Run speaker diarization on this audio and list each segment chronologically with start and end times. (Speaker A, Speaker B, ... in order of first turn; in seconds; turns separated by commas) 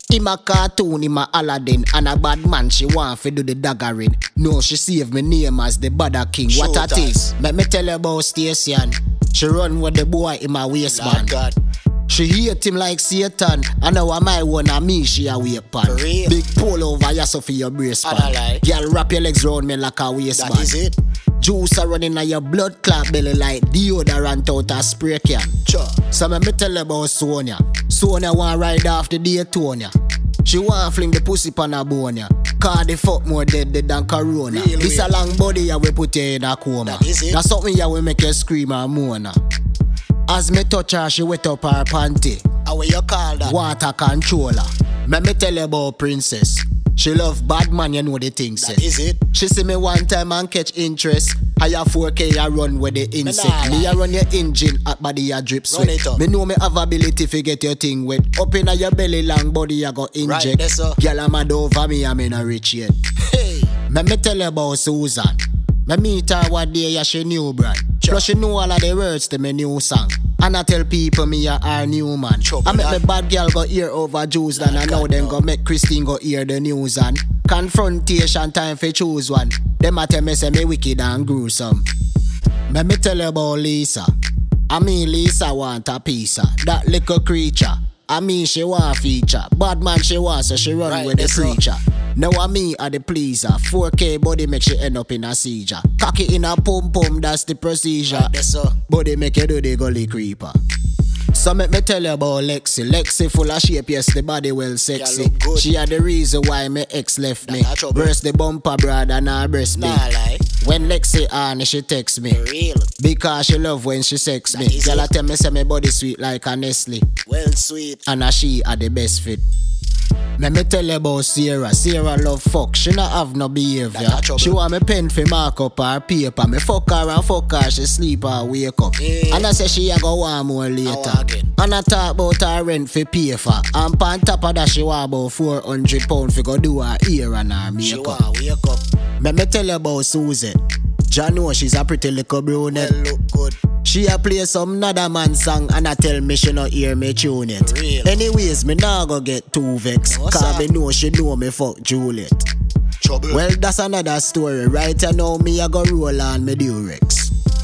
Speaker A: 0.1-11.3, Speaker B: 6.5-7.3, Speaker B: 10.9-11.6, Speaker A: 12.1-20.7, Speaker B: 15.8-16.4, Speaker B: 18.0-18.6, Speaker B: 20.3-20.9, Speaker A: 21.4-25.6, Speaker B: 25.6-26.0, Speaker A: 26.1-29.9, Speaker A: 30.4-39.4, Speaker B: 34.5-35.1, Speaker B: 36.9-37.4, Speaker A: 40.3-42.5, Speaker B: 42.6-43.5, Speaker A: 43.4-62.9, Speaker B: 48.6-49.2, Speaker B: 53.2-54.0, Speaker B: 55.7-56.2, Speaker B: 60.2-61.0, Speaker B: 63.3-63.7, Speaker A: 63.9-81.8, Speaker B: 68.0-68.3, Speaker B: 72.4-73.0, Speaker B: 74.5-75.4, Speaker A: 82.7-84.1, Speaker A: 84.7-98.3, Speaker B: 90.8-91.6, Speaker B: 98.1-98.8, Speaker A: 98.9-100.6, Speaker A: 101.3-110.0, Speaker B: 104.9-105.7, Speaker B: 107.4-108.1, Speaker B: 109.7-110.4, Speaker A: 110.6-112.4, Speaker B: 112.3-112.9, Speaker A: 113.0-117.1, Speaker B: 114.5-115.1, Speaker B: 117.2-118.0, Speaker A: 118.0-119.4, Speaker A: 120.4-138.2, Speaker B: 123.9-124.6, Speaker B: 129.0-129.5, Speaker B: 130.8-131.5, Speaker B: 137.8-138.8, Speaker A: 139.2-142.9, Speaker B: 142.7-143.6, Speaker A: 143.8-152.5, Speaker B: 147.6-148.2, Speaker B: 150.1-150.7, Speaker B: 153.0-153.4, Speaker A: 153.3-157.3